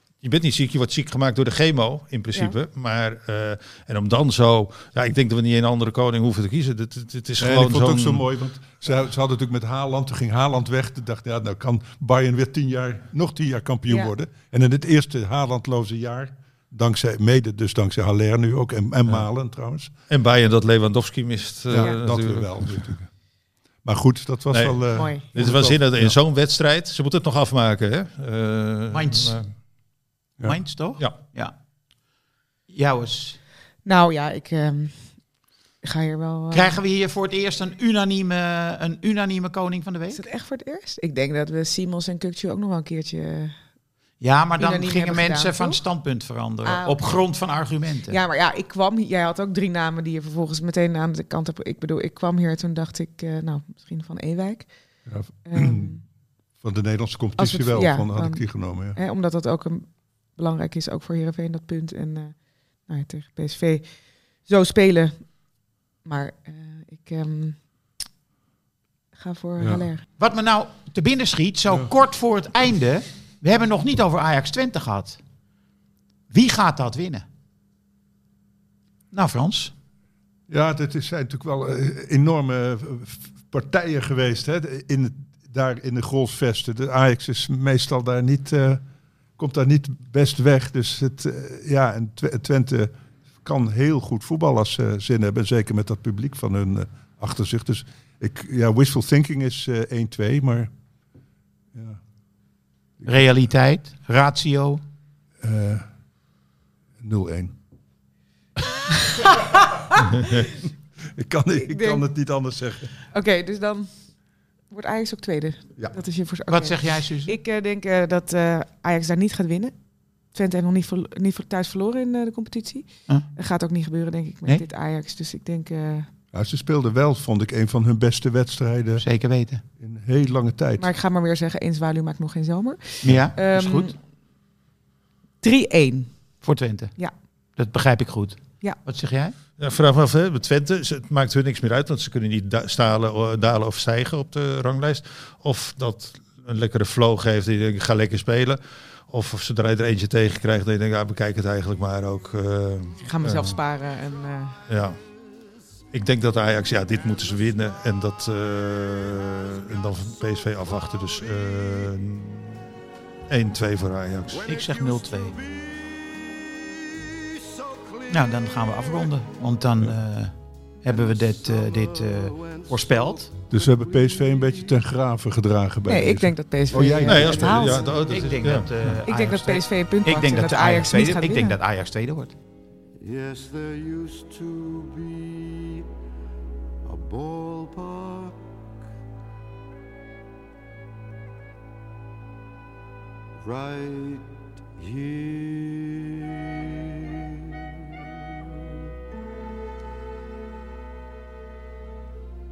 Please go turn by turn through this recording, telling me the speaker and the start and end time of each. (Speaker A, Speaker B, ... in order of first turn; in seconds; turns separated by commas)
Speaker A: 0.2-8.2, Speaker B: 7.4-19.9, Speaker A: 20.1-22.9, Speaker B: 21.7-23.1, Speaker B: 23.8-26.2, Speaker A: 24.5-29.5, Speaker C: 24.9-25.2, Speaker D: 28.9-29.4, Speaker D: 30.4-31.5, Speaker D: 32.7-33.4, Speaker C: 33.8-35.1, Speaker C: 35.8-36.8, Speaker D: 36.5-40.2, Speaker C: 40.1-43.5, Speaker D: 44.2-48.2, Speaker C: 44.6-45.8, Speaker C: 46.6-47.2, Speaker C: 48.1-54.7, Speaker B: 55.1-56.0, Speaker C: 55.5-56.0, Speaker B: 56.6-59.0, Speaker C: 57.4-62.4, Speaker C: 62.9-63.9, Speaker C: 64.4-65.3, Speaker C: 66.0-67.6, Speaker C: 69.2-70.0, Speaker B: 69.6-69.9, Speaker D: 70.2-75.2, Speaker D: 76.3-77.2, Speaker D: 79.1-79.7, Speaker B: 80.5-88.8, Speaker B: 89.4-100.7, Speaker B: 101.7-102.0, Speaker D: 103.0-104.8, Speaker B: 105.4-105.8, Speaker B: 107.0-107.5, Speaker C: 109.0-109.5, Speaker B: 111.1-112.9, Speaker C: 111.6-112.0, Speaker C: 113.1-113.9, Speaker C: 114.7-119.8, Speaker D: 116.5-117.4, Speaker C: 120.3-126.1, Speaker B: 126.3-129.0, Speaker D: 129.0-129.6, Speaker B: 129.8-130.9, Speaker C: 130.8-133.9, Speaker D: 133.0-133.9, Speaker C: 135.4-136.1, Speaker D: 136.4-136.9, Speaker D: 137.6-139.3, Speaker A: 139.6-153.6, Speaker C: 153.0-154.6, Speaker A: 154.7-155.0, Speaker A: 155.9-162.7, Speaker A: 163.3-164.4, Speaker E: 164.3-168.2, Speaker D: 164.5-165.4, Speaker D: 168.1-173.3, Speaker E: 168.9-169.1, Speaker E: 170.8-174.8, Speaker B: 173.5-177.3, Speaker C: 175.9-177.9, Speaker D: 176.7-182.3, Speaker A: 176.8-178.7, Speaker E: 177.8-178.2, Speaker C: 179.1-181.6, Speaker E: 183.0-185.8, Speaker E: 186.8-188.4, Speaker E: 193.4-196.7